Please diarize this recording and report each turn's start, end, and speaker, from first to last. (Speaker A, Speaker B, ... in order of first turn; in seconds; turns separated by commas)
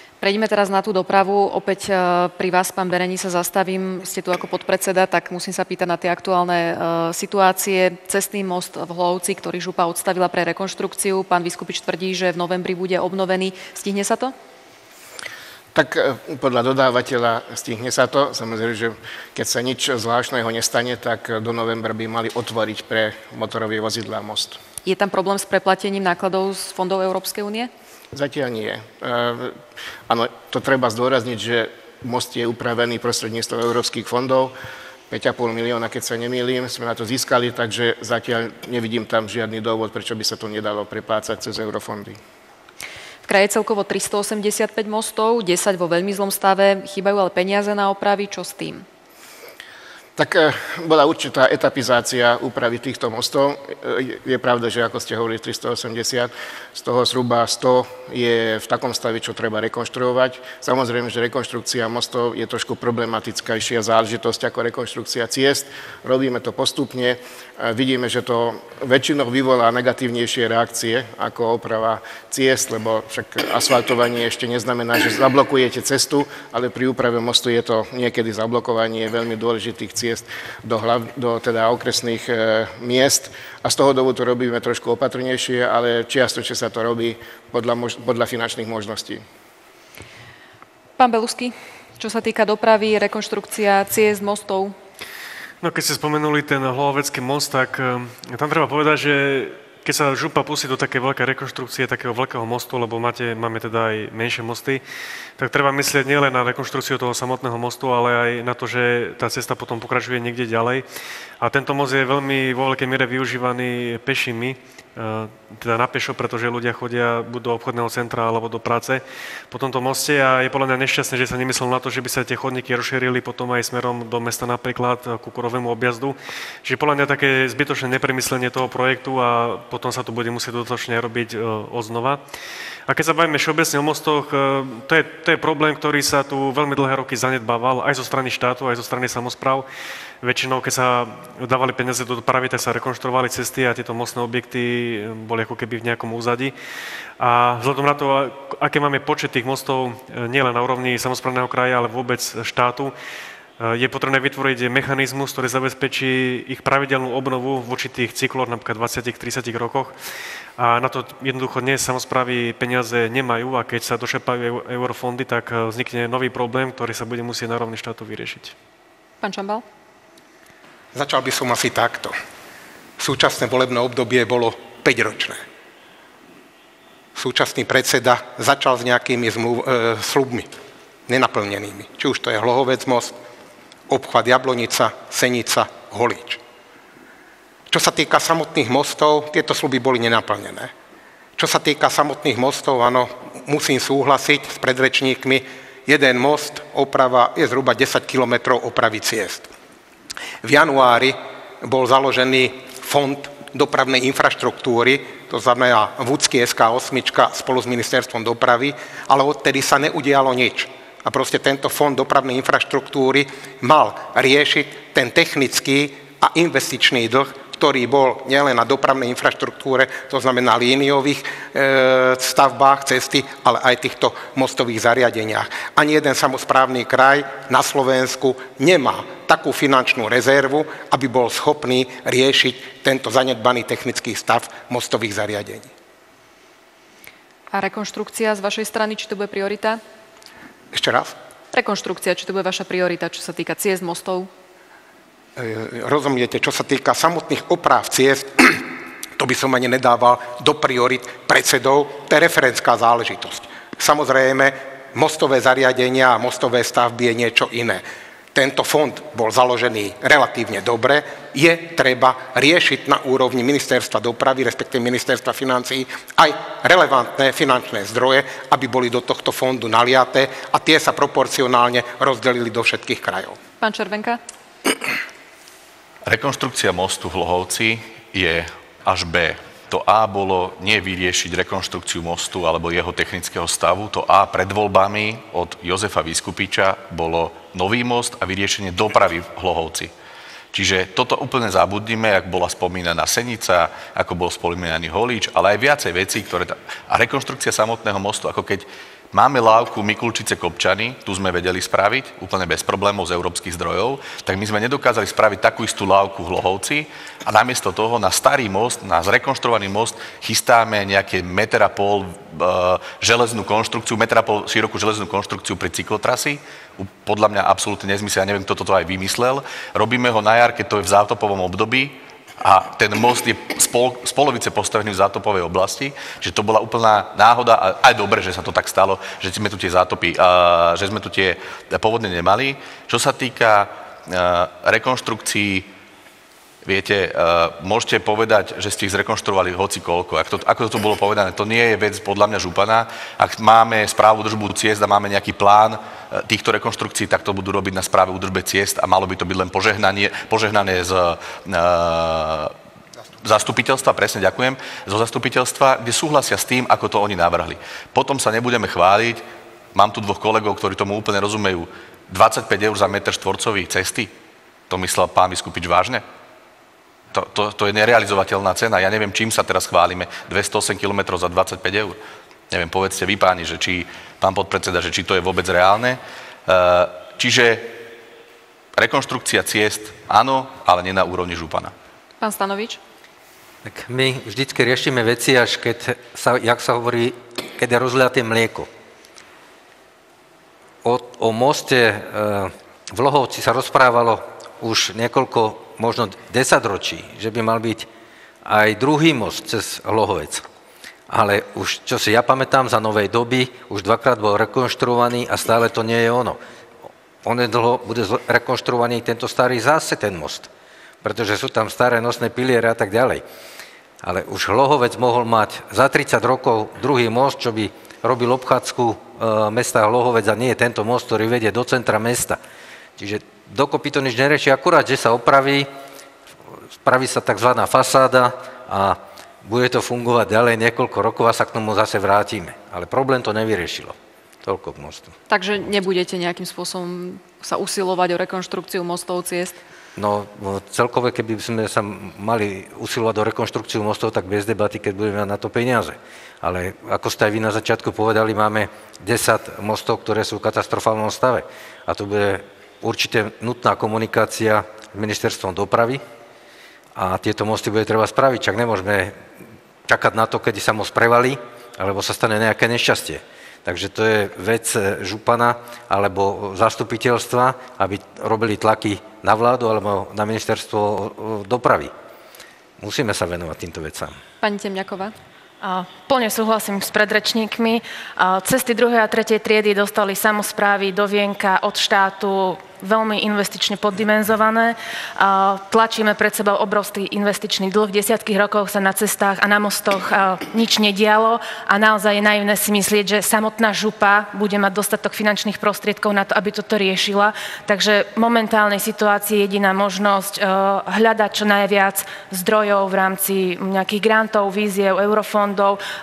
Speaker A: 0.2-14.3, Speaker B: 15.7-24.6, Speaker A: 24.9-27.7, Speaker B: 28.1-34.5, Speaker B: 35.1-42.2, Speaker A: 43.2-48.8, Speaker B: 50.2-89.2, Speaker A: 91.0-94.8, Speaker C: 95.6-104.8, Speaker C: 105.4-110.8, Speaker C: 111.4-132.2, Speaker C: 132.9-139.7, Speaker C: 140.2-146.5, Speaker C: 147.2-152.9, Speaker C: 153.6-160.0, Speaker C: 160.6-168.5, Speaker A: 169.2-169.6, Speaker D: 170.9-172.2, Speaker D: 173.0-175.4, Speaker D: 177.1-180.5, Speaker D: 181.1-183.2, Speaker D: 183.9-186.4, Speaker D: 187.7-190.7, Speaker D: 191.3-199.5, Speaker D: 200.4-235.7, Speaker A: 237.5-239.8, Speaker D: 240.7-241.1, Speaker A: 241.5-244.3, Speaker D: 245.3-273.4, Speaker A: 273.6-274.2, Speaker E: 276.0-289.9, Speaker E: 290.5-335.7, Speaker E: 336.6-352.5, Speaker E: 353.2-364.1, Speaker E: 364.7-366.0, Speaker E: 367.1-372.0, Speaker E: 372.5-377.8, Speaker E: 378.8-381.7, Speaker A: 382.2-382.8, Speaker F: 383.6-388.7, Speaker F: 390.8-397.9, Speaker F: 398.4-400.4, Speaker F: 401.1-406.4, Speaker F: 407.2-410.5, Speaker F: 411.0-413.2, Speaker F: 414.0-422.4, Speaker F: 423.0-425.7, Speaker F: 426.8-435.1, Speaker A: 435.3-439.6, Speaker F: 439.9-456.0, Speaker F: 456.9-459.2, Speaker F: 459.9-471.9, Speaker F: 472.8-474.2, Speaker A: 474.4-475.1, Speaker G: 475.6-505.8